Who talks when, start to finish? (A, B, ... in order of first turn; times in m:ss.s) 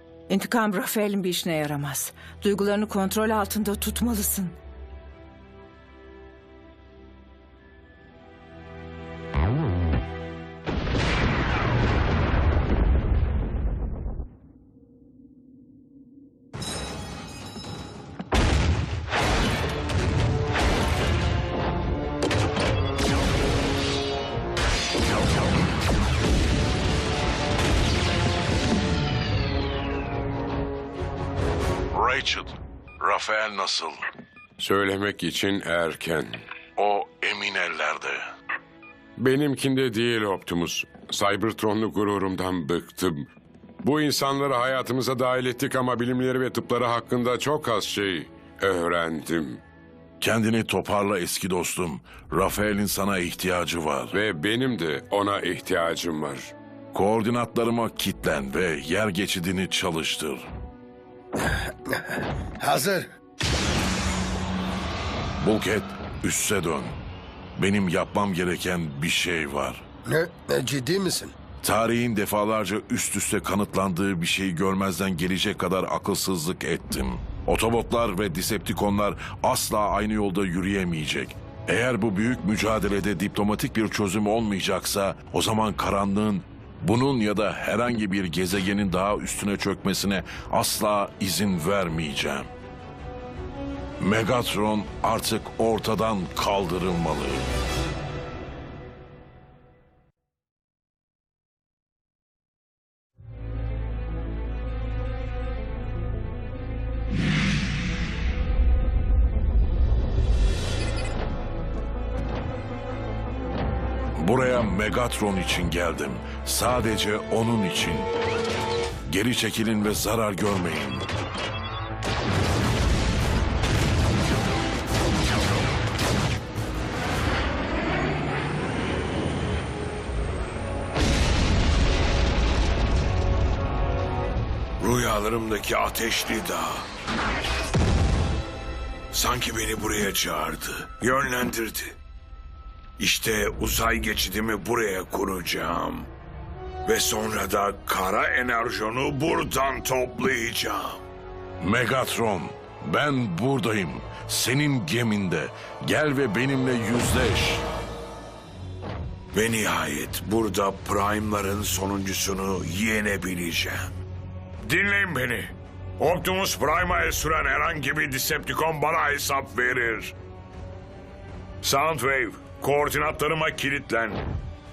0:00.3-0:04.6 A
0:31.9-0:34.0 B
0:34.6-0:36.5 C
0:36.8-0:38.2 B
0:39.2-0:43.3 C
0:43.8-0:49.6 C
0:50.2-0:54.1 B
0:54.1-0:56.5 C
0:56.9-1:00.5 B
1:01.4-1:03.1 D
1:05.4-1:07.0 B
1:07.6-1:09.9 B
1:10.1-1:11.3 D
1:11.6-1:32.5 B
1:34.0-1:37.5 B
1:54.2-1:58.1 B
1:59.1-2:01.1 B
2:14.8-2:16.9 E
2:19.1-2:22.0 E
2:23.0-2:26.1 E
2:26.8-2:31.0 E
2:31.6-2:37.6 B
2:39.3-2:43.9 E
2:44.6-2:50.1 E
2:51.6-2:54.2 E